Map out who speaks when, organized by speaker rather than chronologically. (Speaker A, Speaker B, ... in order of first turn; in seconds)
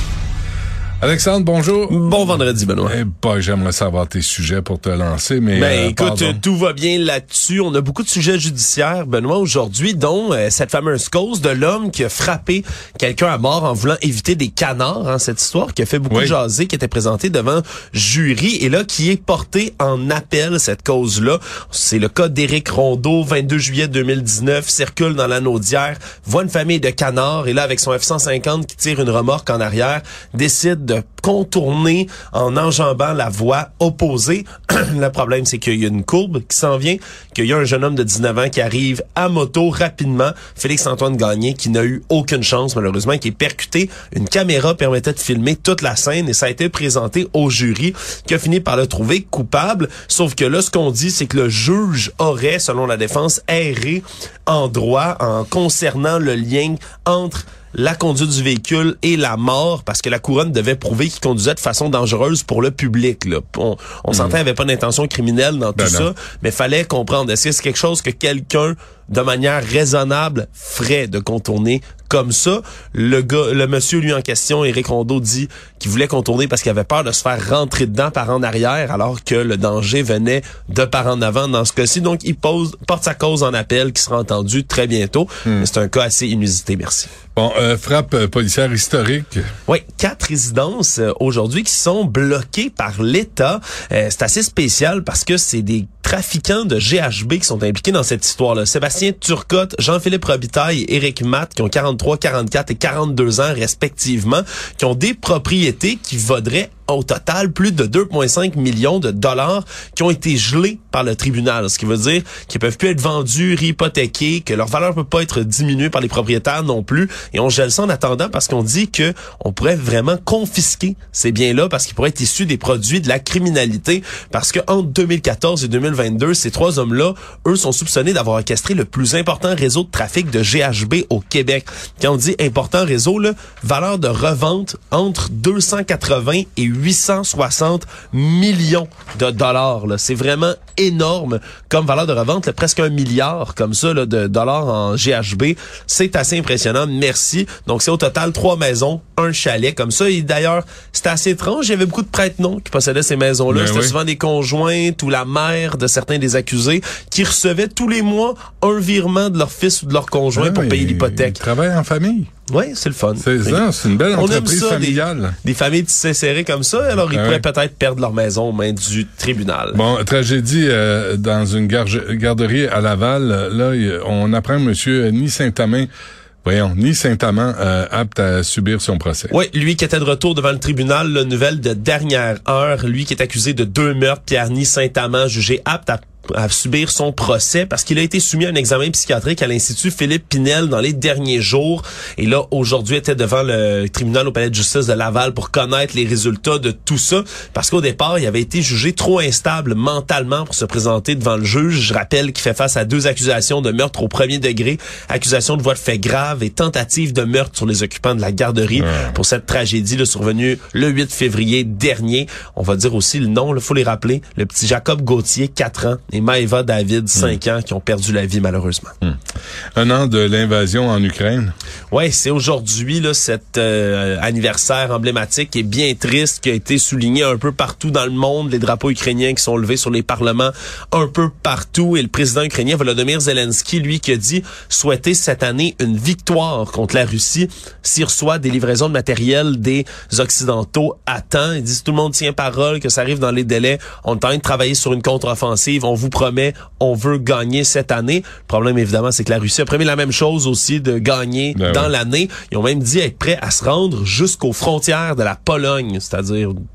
Speaker A: 1.0-2.1, 2.8-6.4, 16.1-16.3, 64.1-64.3, 65.8-66.1, 87.3-89.5, 153.5-153.9, 160.3-162.3, 163.2-165.3, 167.1-167.4, 169.7-175.9, 176.4-179.3, 208.8-209.1, 219.8-221.5, 251.6-251.9
Speaker B: 1.9-2.9, 5.5-87.1, 89.7-161.4, 162.5-169.8, 179.3-218.9, 221.9-256.5